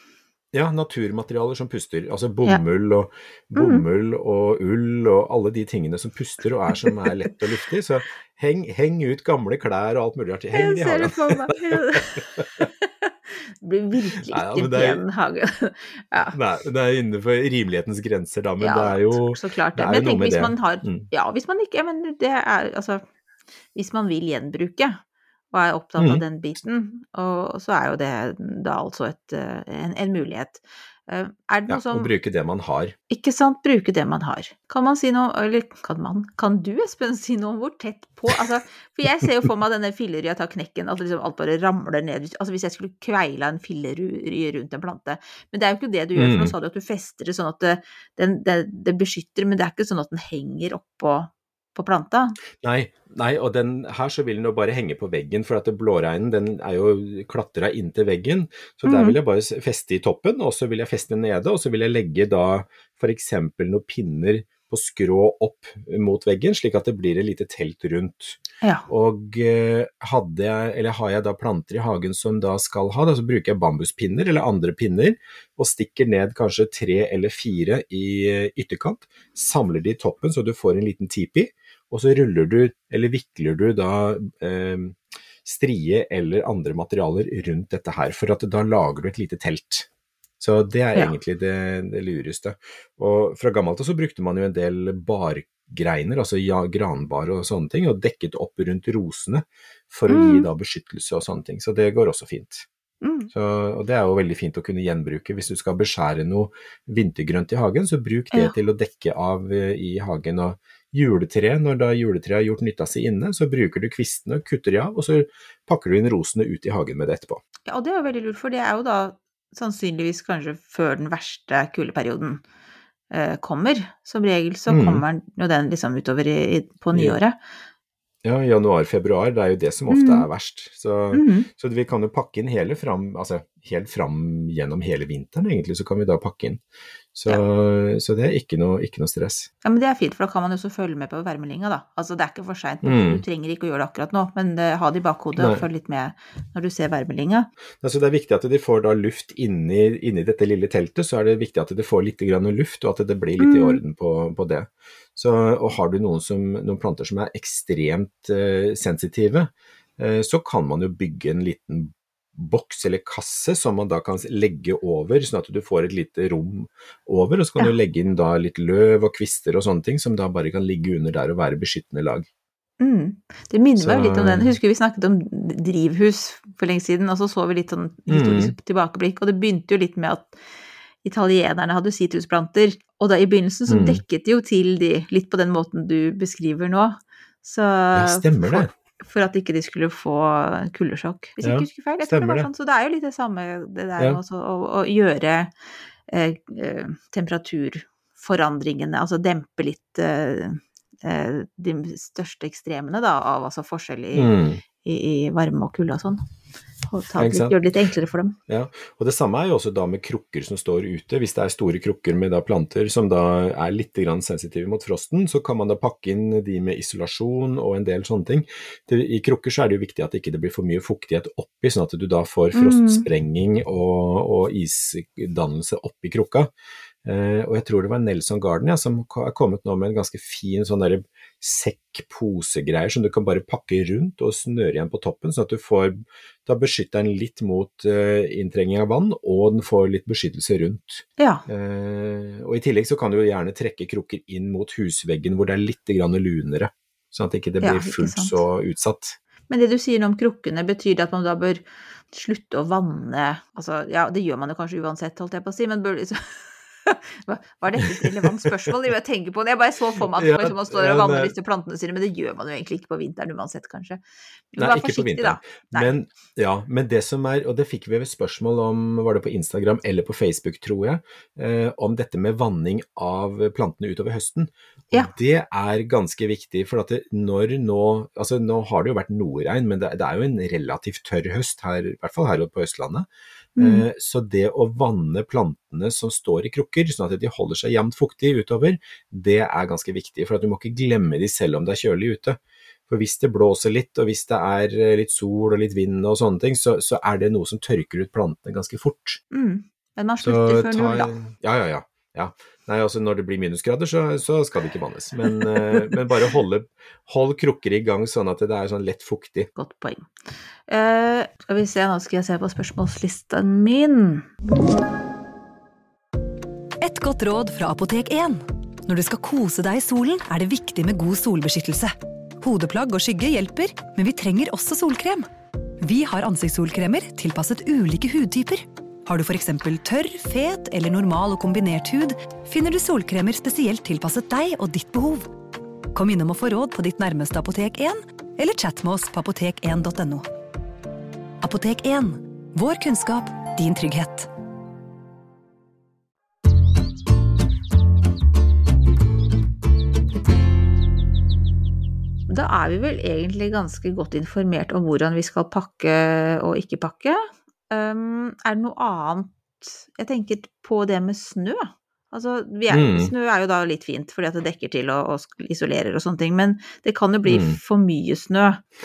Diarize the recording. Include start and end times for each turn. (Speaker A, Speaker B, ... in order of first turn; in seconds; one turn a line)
Speaker A: 0.5-12.7
Speaker B: 3.5-3.9
Speaker B: 10.5-16.4
Speaker A: 14.3-15.0
Speaker A: 16.3-21.1
Speaker B: 18.6-23.0
Speaker B: 23.8-32.1
Speaker A: 26.0-26.2
Speaker A: 31.7-33.0
Speaker B: 33.1-52.4
Speaker A: 46.2-46.5
Speaker A: 52.6-89.9
Speaker B: 58.9-59.2
Speaker B: 68.6-68.9
Speaker A: 90.4-102.7
Speaker B: 100.1-100.5
Speaker B: 103.0-103.3
Speaker A: 103.3-117.4
Speaker B: 117.7-122.4
Speaker B: 123.1-127.4
Speaker A: 124.7-125.0
Speaker A: 128.2-136.6
Speaker B: 129.9-130.3
Speaker B: 131.1-131.5
Speaker A: 137.1-139.5
Speaker B: 139.6-147.5
Speaker A: 142.8-143.2
Speaker A: 145.4-145.6
Speaker A: 147.8-172.3
Speaker B: 153.4-153.8
Speaker B: 172.8-180.4
Speaker A: 173.8-174.6
Speaker A: 178.1-178.5
Speaker B: 181.0-195.5
Speaker A: 183.7-184.0
Speaker A: 187.9-188.7
Speaker A: 191.4-192.5
Speaker B: 196.1-206.2
Speaker A: 204.1-204.6
Speaker B: 206.9-208.4
Speaker A: 207.2-207.6
Speaker A: 208.5-226.5
Speaker B: 222.5-223.1
Speaker A: 227.1-249.2
Speaker B: 241.2-241.4
Speaker B: 247.6-248.4
Speaker B: 249.5-264.0
Speaker A: 260.1-261.3
Speaker B: 264.5-265.9
Speaker A: 264.6-299.2
Speaker B: 283.6-283.9
Speaker B: 299.3-301.1
Speaker A: 300.2-309.5
Speaker B: 309.6-310.1
Speaker B: 310.7-314.3
Speaker C: 316.8-325.3
Speaker C: 325.8-335.3
Speaker C: 335.9-340.3
Speaker C: 341.4-344.3
Speaker B: 352.3-368.6
Speaker A: 362.7-363.1
Speaker A: 367.2-367.6